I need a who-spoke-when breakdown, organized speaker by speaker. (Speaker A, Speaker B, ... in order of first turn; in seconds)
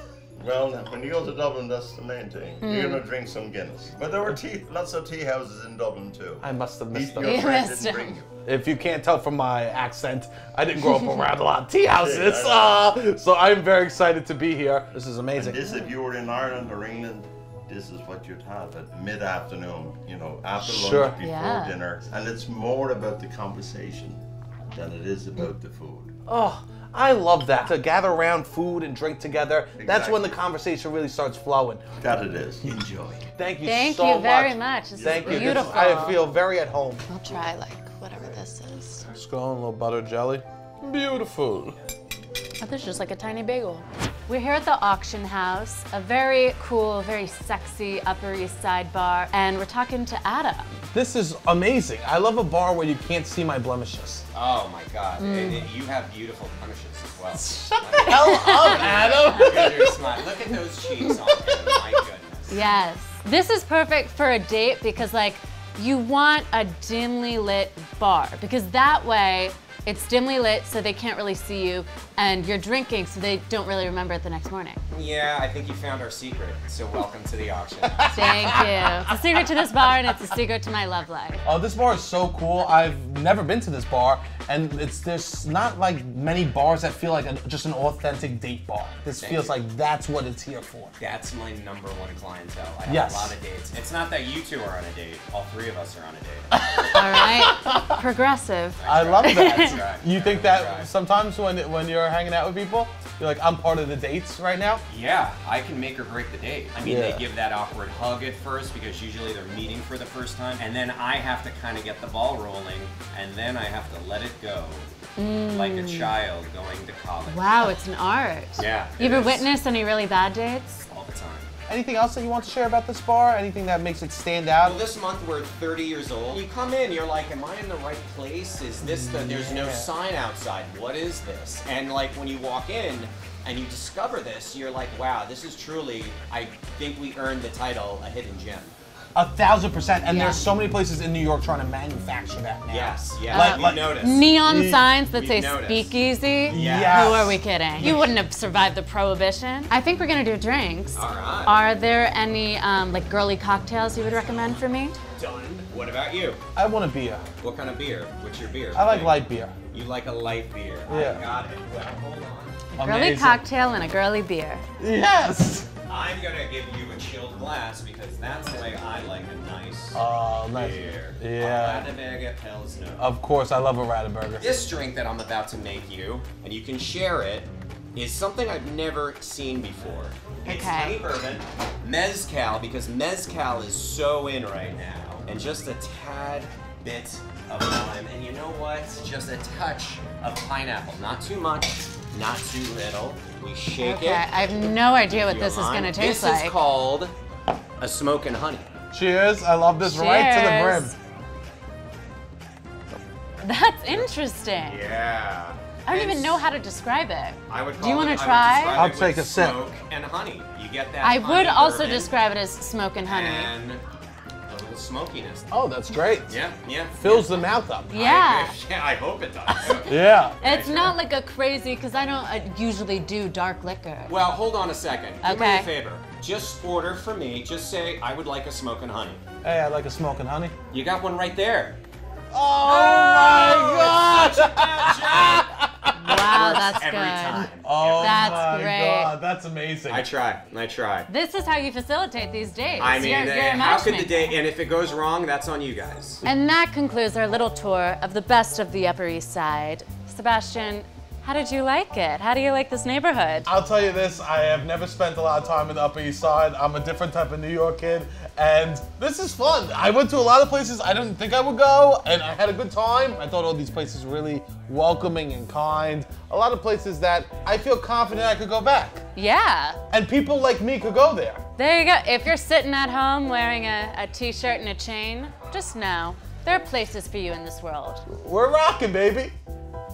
Speaker A: 0.4-8.3, 12.0-12.8, 15.3-24.2, 24.7-26.1, 29.8-30.4, 32.0-33.3, 34.9-36.1
Speaker B: 2.6-3.0, 7.2-8.2, 10.9-11.2, 21.2-21.8, 33.6-36.2, 37.1-39.0, 42.6-50.9, 55.2-55.7, 58.0-60.0, 61.0-61.7, 62.5-74.8, 78.1-81.4, 96.9-99.8, 115.2-116.2, 117.2-120.8, 140.1-140.5, 143.3-155.0, 162.7-164.6, 180.4-181.0, 193.8-196.6, 199.8-200.9, 203.4-204.8, 205.8-208.8, 211.0-213.5, 217.9-218.6, 219.6-224.2, 225.2-225.7, 232.6-233.3, 235.9-239.1, 241.1-244.4, 246.2-253.5, 269.1-269.8, 271.6-278.0
Speaker C: 6.4-7.5, 8.4-15.6, 20.6-21.2, 26.3-31.8, 33.4-37.0, 39.1-41.8, 50.9-54.2, 57.5-59.9, 78.0-79.2, 81.4-90.9, 92.9-93.3, 96.7-97.8, 98.8-104.8, 106.8-107.3, 121.7-124.8, 128.8-129.9, 139.1-144.8, 146.5-147.9, 156.5-157.2, 158.7-159.5, 160.9-161.2, 162.8-163.4, 164.8-165.7, 169.9-171.9, 173.0-174.5, 198.9-200.9, 208.7-209.6, 215.5-216.4, 217.0-217.9, 219.9-220.4, 229.4-230.5, 232.3-236.1, 237.6-240.1, 253.4-269.0, 269.9-271.4, 278.1-279.3
Speaker D: 54.3-62.6, 74.9-78.7, 89.2-89.6, 91.0-96.5, 98.8-100.9, 104.9-114.9, 115.5-117.7, 118.6-119.5, 120.9-121.5, 124.6-138.7, 142.7-144.4, 144.9-145.9, 146.5-147.2, 147.8-148.0, 150.9-151.6, 155.2-156.4, 157.4-162.6, 165.9-173.1, 174.4-197.1, 197.8-198.7, 203.9-206.4, 207.5-212.2, 213.0-213.8, 214.5-215.5, 216.3-217.3, 217.9-219.9, 220.4-221.0, 224.0-229.2, 230.7-231.8, 233.2-235.5, 236.1-238.6, 239.9-241.1, 242.8-246.2